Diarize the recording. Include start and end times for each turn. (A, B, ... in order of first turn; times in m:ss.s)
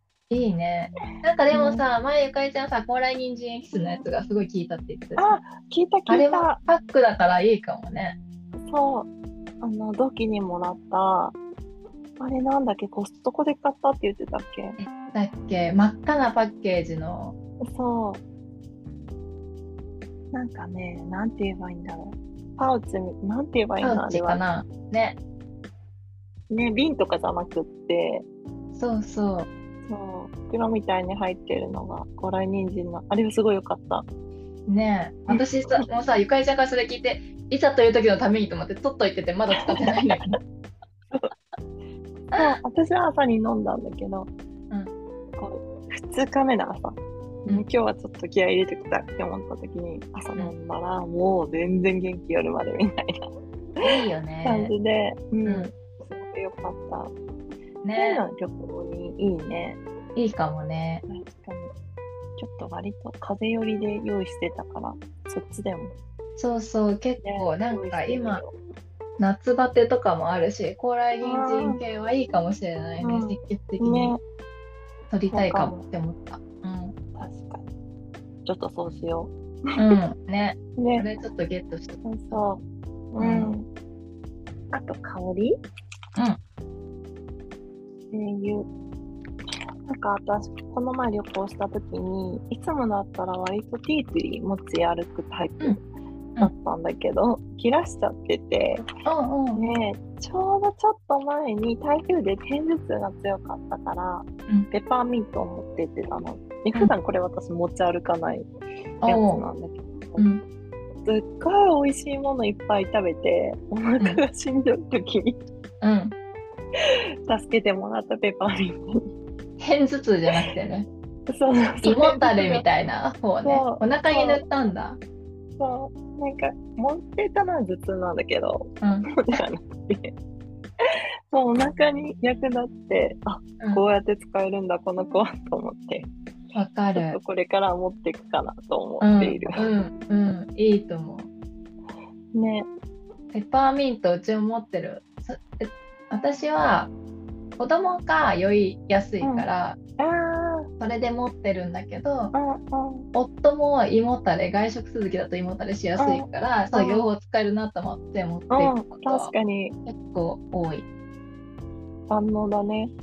0:00.3-0:05.4 A
0:01.5-0:01.8 B
0:05.2-0:06.6 B
0:06.1-0:08.2 A
0:08.7-0:09.1 B
0:09.6-0:11.4 B
0:12.2-0:14.8 B
0:14.8-0:17.4 A
0:17.7-0:18.2 B
0:20.3-0:24.4 B
0:23.8-0:25.2 A
0:26.5-0:28.3 B
0:28.7-0:29.5 A
0:29.9-0:34.1 B
0:34.7-0:40.4 A
0:35.3-0:35.8 B
0:39.6-0:40.4 B
0:42.3-0:44.3 B
0:45.4-0:53.2 B
0:53.8-0:54.7 A
0:54.4-0:57.1 B
0:55.5-0:55.7 A
0:57.8-0:58.2 A
0:58.0-0:59.8 B
1:00.2-1:01.0 A
1:01.1-1:01.7 B
1:02.4-1:06.0 B
1:06.4-1:08.4 A
1:07.2-1:08.5 B
1:09.2-1:14.2 A
1:11.2-1:11.8 B
1:13.0-1:14.2 B
1:15.1-1:17.0 A
1:15.3-1:15.8 B
1:17.2-1:17.7 B
1:18.4-1:19.9 B
1:19.8-1:22.4 A
1:20.8-1:21.1 B
1:22.0-1:23.7 B
1:23.2-1:23.5 A
1:24.7-1:25.6 B
1:28.1-1:28.7 B
1:29.9-1:35.8 B
1:36.4-1:38.8 B
1:39.0-1:39.6 A
1:39.6-1:48.5 B
1:49.0-1:49.4 A
1:49.0-1:50.3 B
1:50.2-1:50.4 A
1:51.0-1:55.4 B
1:55.8-1:56.2 A
1:57.3-1:59.1 B
1:59.6-2:00.9 A
2:01.3-2:02.7 B
2:01.8-2:05.0 A
2:03.4-2:04.4 B
2:05.6-2:10.1 B
2:08.8-2:09.1 A
2:11.3-2:16.1 B
2:13.6-2:13.8 A
2:16.5-2:17.2 A
2:16.9-2:19.8 B
2:19.0-2:21.3 A
2:22.4-2:22.7 B
2:23.3-2:26.9 A
2:27.6-2:29.8 A
2:29.2-2:29.5 B
2:30.0-2:30.7 B
2:30.8-2:32.3 A
2:32.3-2:33.1 B
2:33.1-2:39.3 A
2:36.0-2:37.1 B
2:38.5-2:39.8 B
2:39.8-2:40.9 A
2:42.1-2:42.9 B